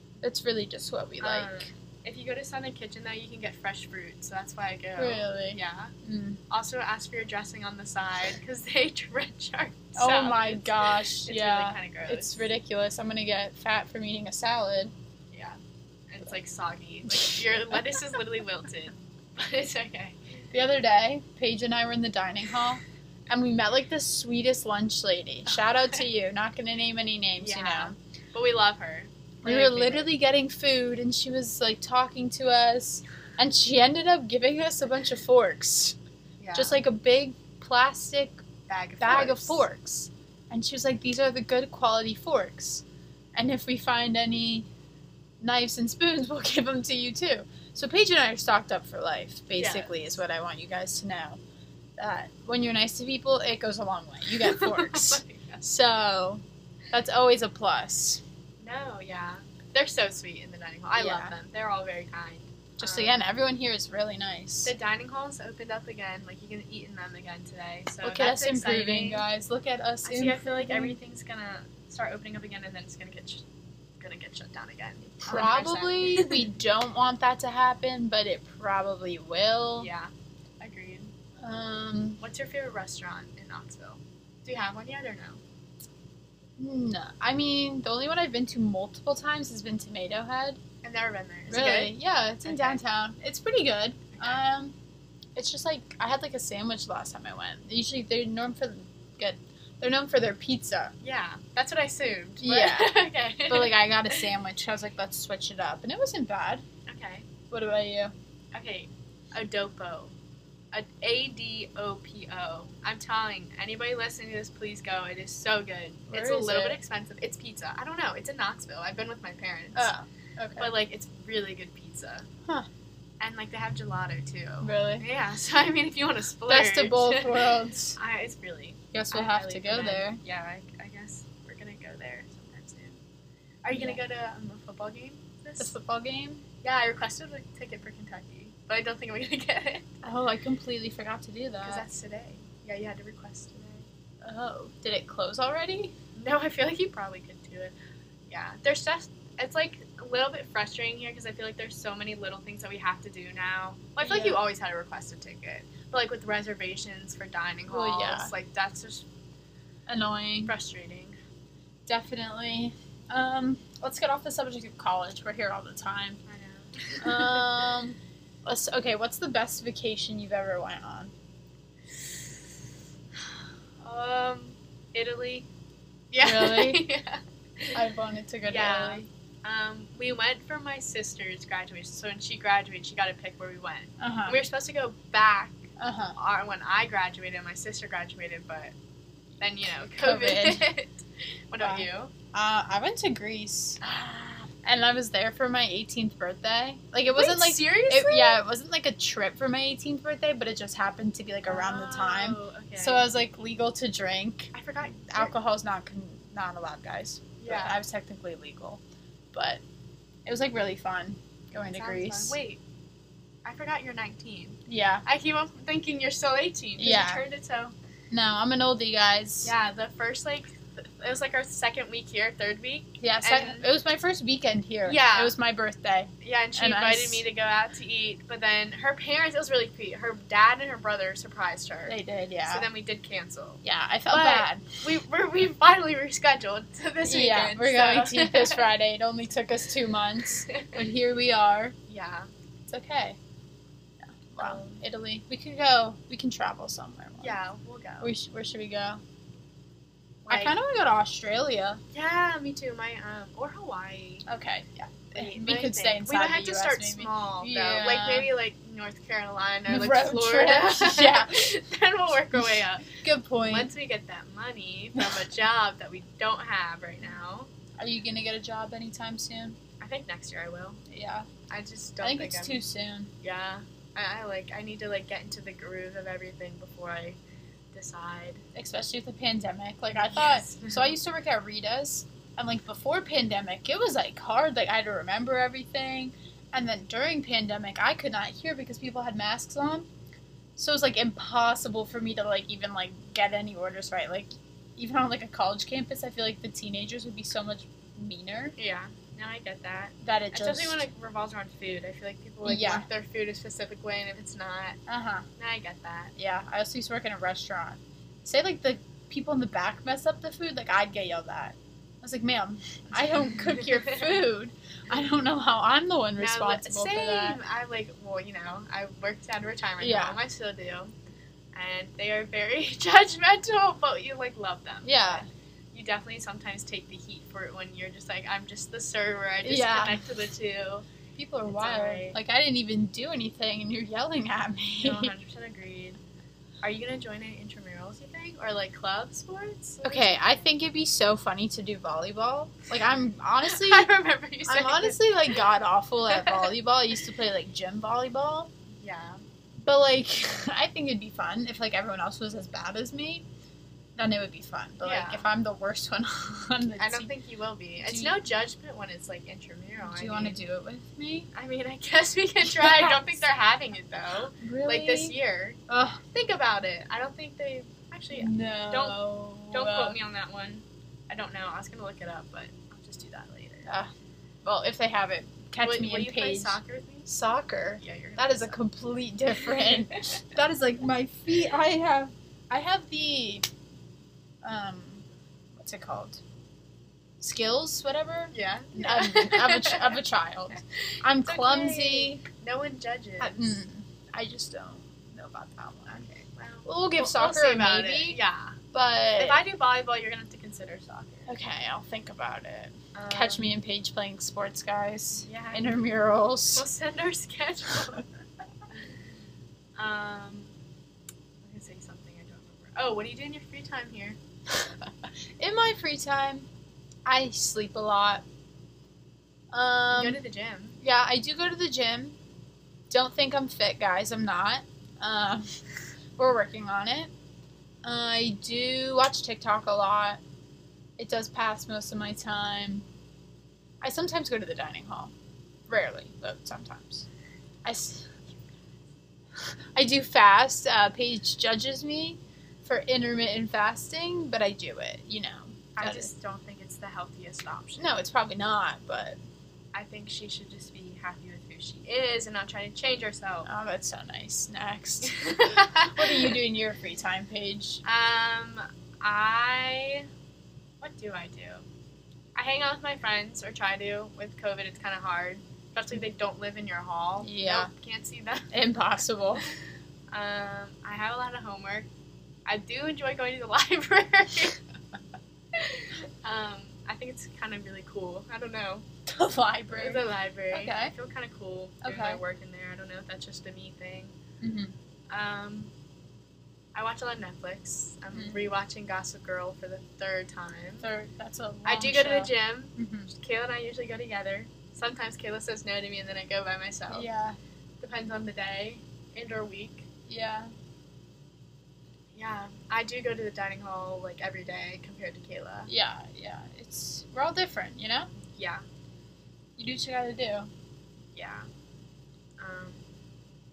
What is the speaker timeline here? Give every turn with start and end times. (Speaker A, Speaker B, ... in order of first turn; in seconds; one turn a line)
Speaker A: 0.2-1.7
Speaker B: 1.2-5.9
Speaker A: 5.0-6.4
Speaker B: 6.5-12.4
Speaker A: 10.0-14.9
Speaker B: 15.3-15.6
Speaker B: 16.1-20.3
Speaker A: 17.2-17.8
Speaker A: 20.5-27.9
Speaker B: 27.4-30.1
Speaker A: 29.4-36.0
Speaker B: 36.4-36.8
Speaker A: 36.5-38.4
Speaker B: 38.7-39.6
Speaker A: 39.0-44.7
Speaker A: 45.4-51.4
Speaker B: 49.6-50.2
Speaker A: 52.0-58.2
Speaker B: 54.4-55.6
Speaker B: 58.6-63.2
Speaker A: 60.9-61.3
Speaker A: 62.8-64.7
Speaker B: 64.6-69.2
Speaker A: 68.0-71.0
Speaker B: 70.0-73.4
Speaker B: 74.0-76.4
Speaker A: 75.2-79.9
Speaker B: 79.8-81.1
Speaker A: 81.4-82.2
Speaker B: 82.2-85.4
Speaker A: 86.6-90.6
Speaker B: 90.8-92.8
Speaker A: 91.5-94.8
Speaker B: 94.1-94.4
Speaker A: 95.3-100.9
Speaker B: 101.0-104.3
Speaker A: 102.4-106.6
Speaker B: 106.9-107.3
Speaker A: 107.5-108.1
Speaker B: 108.5-110.1
Speaker B: 110.7-119.9
Speaker A: 116.1-116.8
Speaker A: 119.8-120.8
Speaker B: 120.6-122.3
Speaker B: 123.2-133.0
Speaker A: 124.6-125.0
Speaker A: 126.5-128.0
Speaker A: 128.9-130.2
Speaker B: 133.6-135.8
Speaker A: 133.7-134.0
Speaker A: 135.6-136.4
Speaker B: 136.6-139.9
Speaker A: 140.0-141.9
Speaker B: 141.6-143.9
Speaker A: 144.2-145.9
Speaker B: 146.2-147.7
Speaker B: 148.3-159.1
Speaker A: 154.0-154.4
Speaker A: 157.7-158.3
Speaker A: 159.9-160.5
Speaker B: 160.4-161.2
Speaker A: 161.9-166.2
Speaker B: 166.3-167.7
Speaker A: 167.0-171.1
Speaker B: 173.8-175.5
Speaker B: 176.1-177.8
Speaker A: 176.2-176.9
Speaker A: 177.7-179.0
Speaker B: 178.5-188.7
Speaker A: 184.0-184.4
Speaker A: 185.8-186.2
Speaker B: 189.4-192.1
Speaker A: 189.5-190.7
Speaker A: 191.6-208.8
Speaker B: 197.1-198.4
Speaker B: 201.5-203.1
Speaker B: 204.5-205.3
Speaker B: 207.4-207.8
Speaker A: 209.3-209.6
Speaker A: 210.2-212.4
Speaker B: 211.6-212.6
Speaker B: 213.4-217.7
Speaker A: 214.7-215.1
Speaker A: 216.8-217.2
Speaker A: 218.1-219.5
Speaker B: 219.4-223.7
Speaker A: 223.0-227.2
Speaker B: 224.9-225.4
Speaker B: 226.2-238.7
Speaker A: 231.9-232.7
Speaker A: 233.6-234.8
Speaker A: 237.0-241.8
Speaker B: 240.4-240.8
Speaker B: 241.9-242.3
Speaker A: 242.7-243.2
Speaker A: 244.0-247.4
Speaker B: 244.4-244.8
Speaker B: 247.2-248.1
Speaker A: 248.0-249.0
Speaker B: 250.2-250.6
Speaker A: 250.3-251.8
Speaker B: 251.9-254.3
Speaker A: 254.3-258.3
Speaker B: 255.1-267.5
Speaker A: 259.7-261.5
Speaker A: 262.3-263.7
Speaker A: 267.8-269.6
Speaker B: 269.8-270.8
Speaker A: 270.9-271.3
Speaker B: 271.5-272.6
Speaker A: 272.0-273.1
Speaker B: 273.2-277.2
Speaker B: 277.7-278.4
Speaker A: 278.6-289.9
Speaker B: 279.9-280.9
Speaker A: 290.6-298.6
Speaker B: 298.6-304.8
Speaker A: 300.0-300.9
Speaker A: 302.4-302.9
Speaker A: 304.9-305.3
Speaker B: 305.4-306.1
Speaker A: 306.2-317.4
Speaker B: 313.0-314.2
Speaker B: 316.2-320.9
Speaker A: 319.8-320.2
Speaker B: 321.5-330.8
Speaker A: 324.8-325.3
Speaker A: 329.4-330.0
Speaker A: 331.2-335.1
Speaker B: 331.5-332.2
Speaker B: 334.8-336.0
Speaker B: 336.6-340.2
Speaker A: 339.8-343.9
Speaker B: 343.4-345.4
Speaker A: 344.5-348.5
Speaker B: 346.1-346.5
Speaker B: 348.8-349.2
Speaker A: 349.6-353.3
Speaker A: 353.9-357.1
Speaker B: 354.8-355.3
Speaker B: 356.8-360.4
Speaker A: 357.8-358.2
Speaker A: 359.8-361.3
Speaker B: 361.3-365.6
Speaker A: 362.4-363.2
Speaker A: 364.4-365.2
Speaker A: 365.7-366.0
Speaker B: 366.1-373.7
Speaker A: 368.2-369.9
Speaker A: 373.7-373.9
Speaker A: 374.4-383.5
Speaker B: 375.6-377.1
Speaker B: 377.8-378.6
Speaker A: 384.4-385.1
Speaker A: 385.6-386.2
Speaker A: 387.2-392.2
Speaker B: 388.3-390.0
Speaker B: 390.6-393.6
Speaker A: 393.2-396.1
Speaker B: 395.9-398.6
Speaker A: 396.7-398.2
Speaker A: 398.7-399.4
Speaker B: 399.2-401.3
Speaker A: 401.3-406.7
Speaker B: 402.9-403.6
Speaker B: 405.2-405.8
Speaker B: 406.5-408.1
Speaker B: 409.8-410.5
Speaker B: 411.4-414.2
Speaker A: 414.5-416.5
Speaker A: 417.1-418.2
Speaker A: 419.5-420.2
Speaker B: 419.9-420.8
Speaker A: 420.8-422.2
Speaker A: 422.9-425.6
Speaker A: 426.2-427.1
Speaker A: 427.8-430.2
Speaker A: 431.0-432.8
Speaker A: 433.8-435.1
Speaker A: 435.7-437.1
Speaker A: 437.6-438.2
Speaker A: 439.4-446.1
Speaker B: 445.8-447.9
Speaker A: 447.8-449.2
Speaker B: 449.7-453.5
Speaker A: 453.4-457.8
Speaker B: 455.0-456.4
Speaker B: 457.8-460.1
Speaker B: 460.8-461.6
Speaker B: 462.4-468.5
Speaker A: 467.2-467.7
Speaker A: 468.5-469.5
Speaker B: 470.1-471.9
Speaker B: 472.4-474.6
Speaker B: 475.5-478.8
Speaker A: 479.1-480.9
Speaker B: 479.7-484.2
Speaker A: 481.8-482.2
Speaker A: 484.4-484.7
Speaker B: 485.1-485.7
Speaker B: 486.8-490.9
Speaker A: 488.1-488.5
Speaker A: 490.8-493.1
Speaker B: 491.6-497.1
Speaker A: 496.9-497.4
Speaker B: 497.8-499.9
Speaker A: 500.1-500.5
Speaker B: 502.1-505.7
Speaker A: 505.7-508.1
Speaker B: 508.3-508.6
Speaker A: 509.6-510.5
Speaker B: 511.1-511.5
Speaker B: 512.4-512.8